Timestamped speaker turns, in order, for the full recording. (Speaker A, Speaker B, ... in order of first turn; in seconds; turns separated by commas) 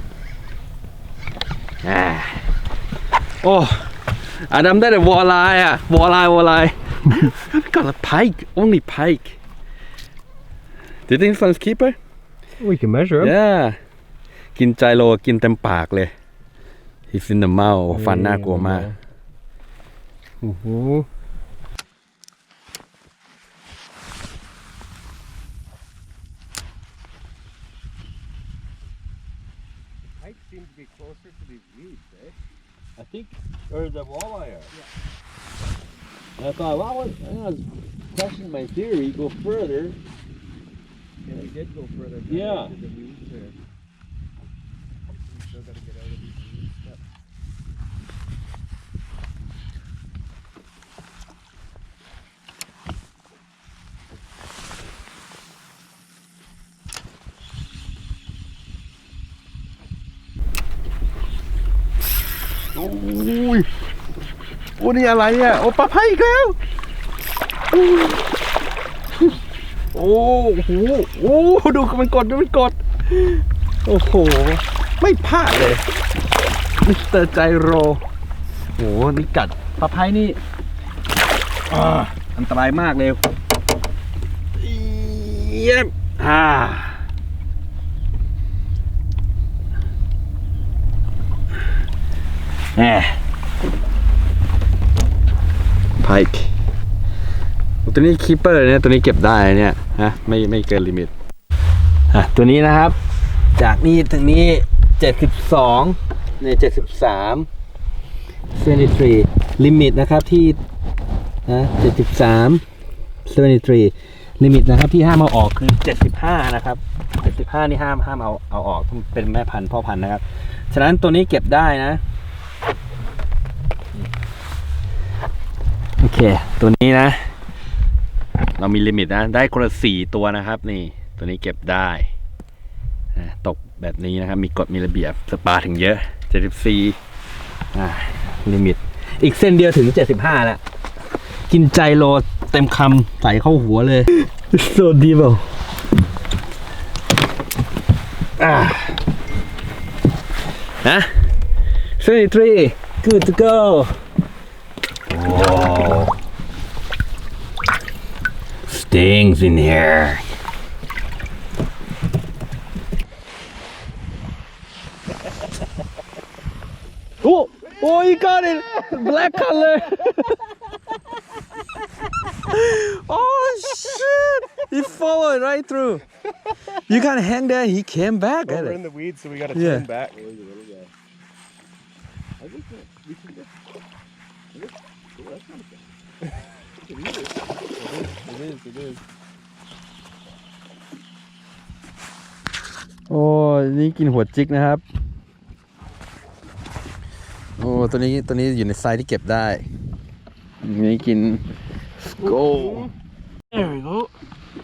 Speaker A: 1.8-2.5, Speaker A: 3.4-9.4, Speaker A: 11.1-12.0, Speaker B: 12.6-13.3, Speaker A: 13.2-13.8, Speaker A: 14.6-16.1, Speaker A: 17.1-18.9, Speaker B: 17.9-18.9, Speaker B: 20.4-21.1, Speaker B: 30.2-32.4, Speaker C: 33.0-34.7, Speaker C: 36.4-40.0, Speaker B: 41.3-43.5, Speaker C: 42.3-42.7, Speaker B: 45.3-47.0, Speaker A: 62.8-63.7, Speaker A: 64.8-66.6, Speaker A: 67.7-68.2, Speaker A: 69.9-75.8, Speaker A: 76.8-78.0, Speaker A: 78.8-80.4, Speaker A: 81.7-83.2, Speaker A: 84.6-87.0, Speaker A: 92.8-93.2, Speaker A: 96.0-96.5, Speaker A: 97.8-101.1, Speaker A: 102.1-103.0, Speaker A: 103.5-107.5, Speaker A: 108.5-110.6, Speaker A: 111.5-112.6, Speaker A: 113.3-122.0, Speaker A: 126.0-127.3, Speaker A: 128.6-132.1, Speaker A: 133.2-137.0, Speaker A: 137.7-140.6, Speaker A: 141.5-145.6, Speaker A: 148.4-149.1, Speaker A: 150.8-151.1, Speaker A: 152.0-154.0, Speaker A: 155.1-156.2, Speaker A: 158.6-160.3, Speaker A: 167.2-170.4, Speaker A: 172.4-176.1, Speaker A: 176.8-178.8, Speaker B: 178.4-180.2, Speaker A: 179.5-179.9, Speaker C: 180.2-180.9, Speaker C: 182.4-183.2, Speaker C: 185.2-185.6, Speaker C: 188.2-188.9, Speaker A: 193.1-194.8, Speaker A: 197.6-199.7, Speaker A: 200.6-201.4, Speaker A: 202.0-202.9, Speaker B: 202.2-202.9, Speaker B: 203.5-204.1